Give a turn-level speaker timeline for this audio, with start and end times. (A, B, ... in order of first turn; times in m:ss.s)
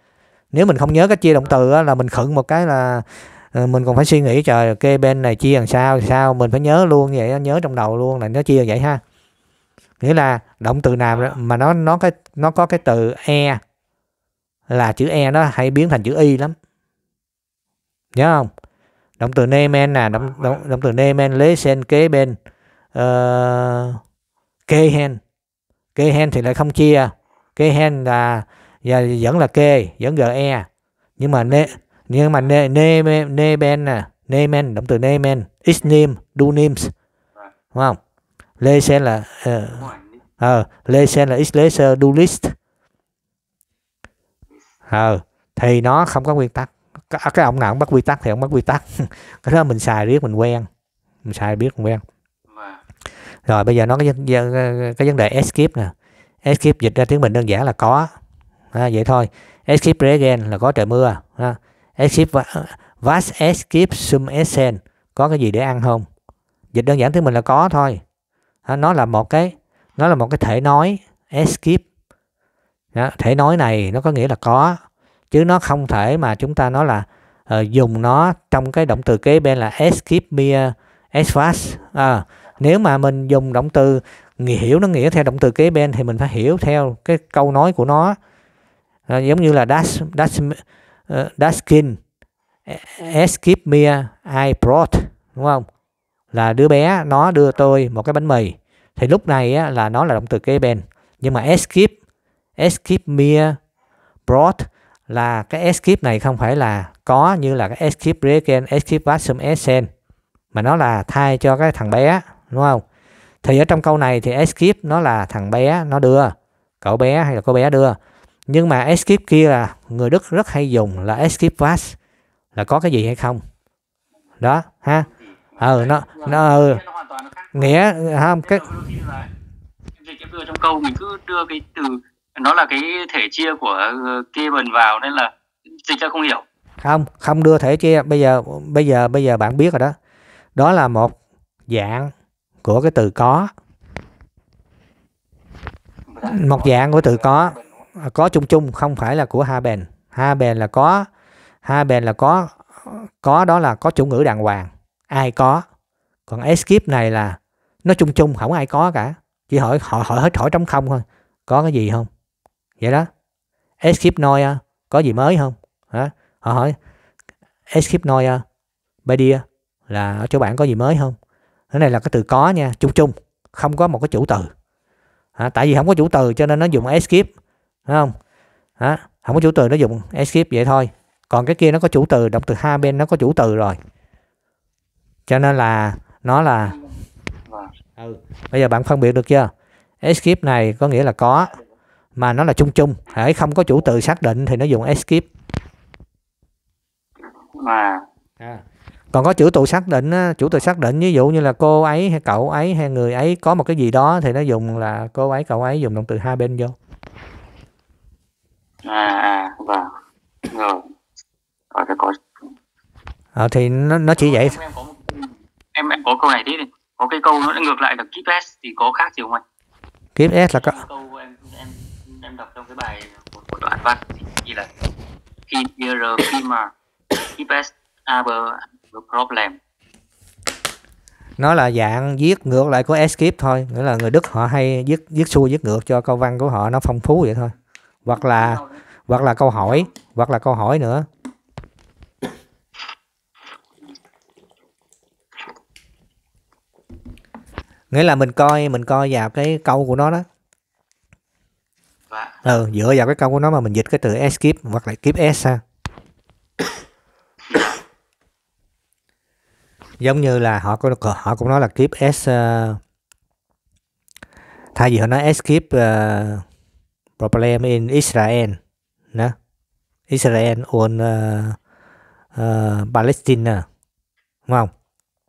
0:00.5-0:09.0 A
0:10.0-0:13.6 A
0:11.1-0:11.4 B
0:14.7-0:16.5 A
0:18.1-0:18.5 A
0:19.2-0:22.4 A
0:20.1-0:20.6 B
0:22.9-0:24.0 A
0:24.7-0:25.2 A
0:26.0-0:30.7 A
0:31.2-0:36.9 A
0:38.6-0:42.5 A
0:39.8-0:40.2 B
0:44.9-0:50.7 A
0:51.2-0:52.0 A
0:52.5-0:52.8 B
0:53.4-0:58.1 A
0:58.7-1:06.0 A
1:06.7-1:08.0 A
1:08.6-1:11.8 A
1:12.9-1:14.8 A
1:15.3-1:28.2 A
1:29.1-1:32.0 A
1:32.7-1:35.6 A
1:36.3-1:41.9 A
1:42.6-1:43.6 A
1:44.3-1:49.9 A
1:50.5-1:52.8 A
1:53.4-2:02.0 A
2:02.5-2:03.4 A
2:04.4-2:06.8 A
2:05.1-2:07.8 B
2:07.5-2:08.6 A
2:08.4-2:09.3 B
2:10.0-2:16.4 B
2:16.8-2:20.0 A
2:20.5-2:21.2 A
2:21.7-2:22.1 A
2:22.6-2:23.5 A
2:26.1-2:27.8 B
2:26.2-2:31.1 A
2:31.6-2:35.6 A
2:36.3-2:42.1 A
2:42.8-2:43.1 A
2:43.8-2:46.8 A
2:47.7-2:48.4 A
2:49.0-2:51.2 A
2:51.7-2:54.5 A
2:55.4-2:57.3 A
2:57.9-2:58.1 A
2:58.8-3:03.8 A
3:05.3-3:06.8 A
3:06.6-3:06.9 B
3:08.0-3:09.5 A
3:10.0-3:11.6 A
3:12.2-3:15.3 A
3:17.5-3:18.0 B
3:18.4-3:26.8 A
3:28.8-3:29.9 B
3:30.5-3:30.8 B
3:31.7-3:32.2 B
3:33.3-3:34.6 A
3:34.1-3:39.4 B
3:40.2-3:40.8 A
3:40.5-3:44.7 B
3:45.5-3:46.7 B
3:47.3-3:49.6 B
3:51.4-3:57.5 A
3:58.0-4:01.0 A
3:58.1-3:58.8 B
3:59.6-3:59.9 B
4:07.9-4:10.2 A
4:12.1-4:12.4 B
4:12.4-4:15.6 A
4:20.0-4:22.8 A
4:24.7-4:26.4 A
4:27.2-4:28.6 A
4:30.1-4:31.6 A
4:32.4-4:33.6 A